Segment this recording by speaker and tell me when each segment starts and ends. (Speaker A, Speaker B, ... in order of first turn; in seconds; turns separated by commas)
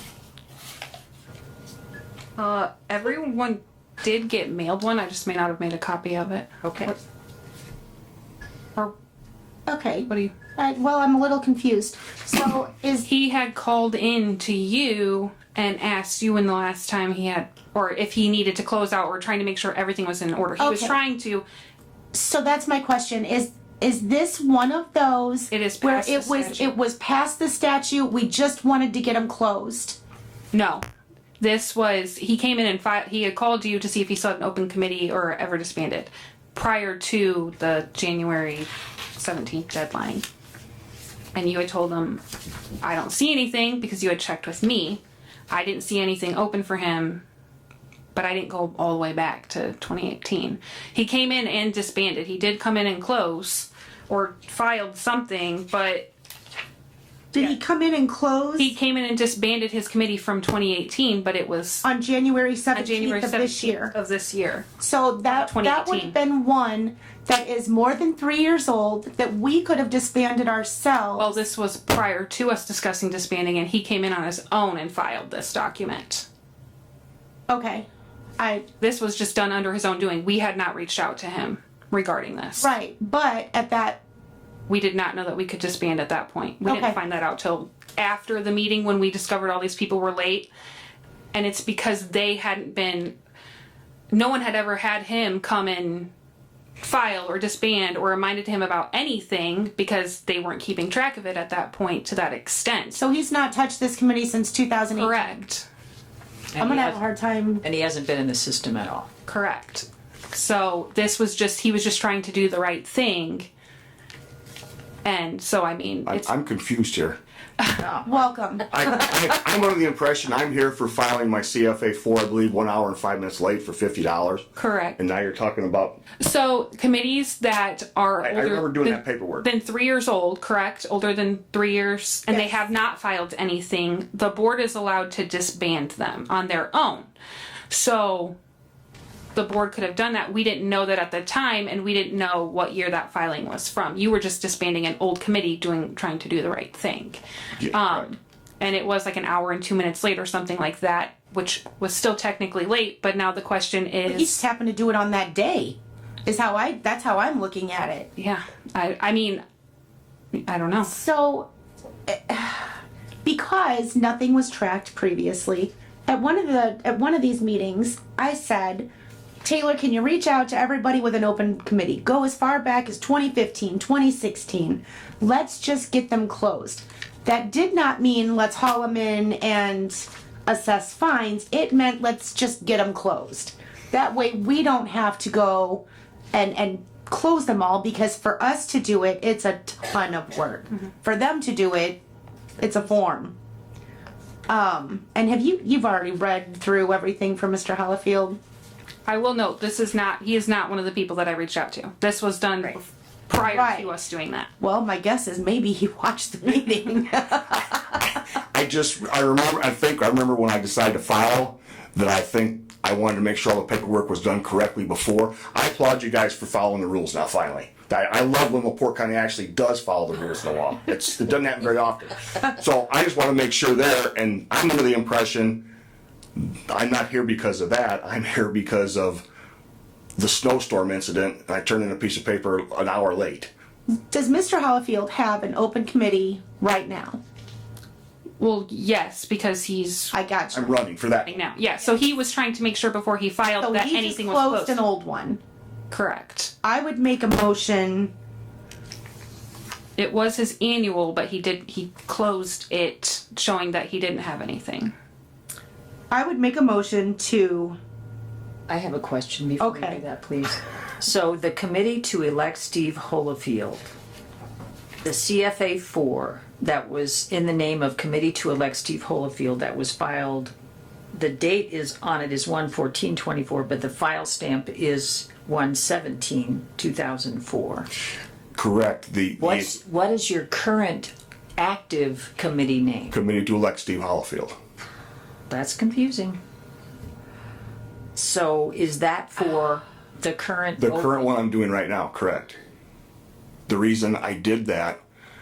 Speaker A: 2.4-6.9, Speaker B: 6.6-6.9, Speaker C: 9.7-13.1, Speaker A: 13.1-21.4, Speaker C: 20.6-21.0, Speaker C: 22.1-30.0, Speaker A: 25.5-26.7, Speaker A: 30.5-30.8, Speaker A: 31.4-40.2, Speaker A: 41.3-42.2, Speaker A: 42.8-47.2, Speaker A: 48.1-56.1, Speaker C: 57.3-58.7, Speaker A: 58.6-61.8, Speaker C: 61.8-63.9, Speaker A: 62.7-64.7, Speaker C: 64.8-71.4, Speaker A: 65.3-66.1, Speaker A: 71.2-76.2, Speaker C: 77.5-77.8, Speaker C: 78.4-78.6, Speaker A: 78.8-82.7, Speaker C: 82.6-84.0, Speaker A: 84.7-90.5, Speaker C: 86.7-87.0, Speaker A: 91.3-93.1, Speaker A: 94.1-96.1, Speaker A: 96.8-103.0, Speaker C: 102.9-105.3, Speaker A: 105.0-105.7, Speaker B: 106.5-107.0, Speaker C: 106.6-107.6, Speaker B: 107.6-109.1, Speaker A: 109.2-113.5, Speaker A: 115.0-116.3, Speaker D: 116.0-117.2, Speaker B: 117.8-118.1, Speaker C: 118.0-118.8, Speaker D: 118.7-124.4, Speaker A: 124.6-125.0, Speaker D: 125.0-126.0, Speaker A: 126.2-137.1, Speaker D: 128.2-129.5, Speaker C: 132.3-132.6, Speaker A: 137.7-138.3, Speaker A: 139.3-154.4, Speaker D: 147.6-148.1, Speaker C: 154.1-158.1, Speaker A: 158.2-159.4, Speaker A: 160.3-160.9, Speaker C: 160.8-161.5, Speaker C: 162.1-168.9, Speaker C: 169.4-192.0, Speaker C: 192.6-193.3, Speaker C: 194.5-198.4, Speaker A: 199.1-204.5, Speaker C: 203.4-203.9, Speaker C: 204.6-208.0, Speaker D: 208.5-225.7, Speaker D: 226.3-229.2, Speaker D: 230.2-233.5, Speaker C: 234.1-237.2, Speaker A: 238.4-240.1, Speaker C: 240.1-240.8, Speaker D: 240.5-241.5, Speaker A: 241.3-244.8, Speaker C: 243.6-245.4, Speaker A: 245.9-246.5, Speaker C: 246.6-248.1, Speaker A: 250.0-254.9, Speaker C: 256.1-257.8, Speaker B: 258.7-263.9, Speaker C: 259.6-260.0, Speaker B: 265.0-270.5, Speaker B: 271.1-277.9, Speaker D: 278.5-279.7, Speaker B: 279.4-283.2, Speaker D: 283.1-284.6, Speaker B: 285.5-286.4, Speaker B: 288.1-291.3, Speaker D: 290.8-292.6, Speaker D: 293.7-295.0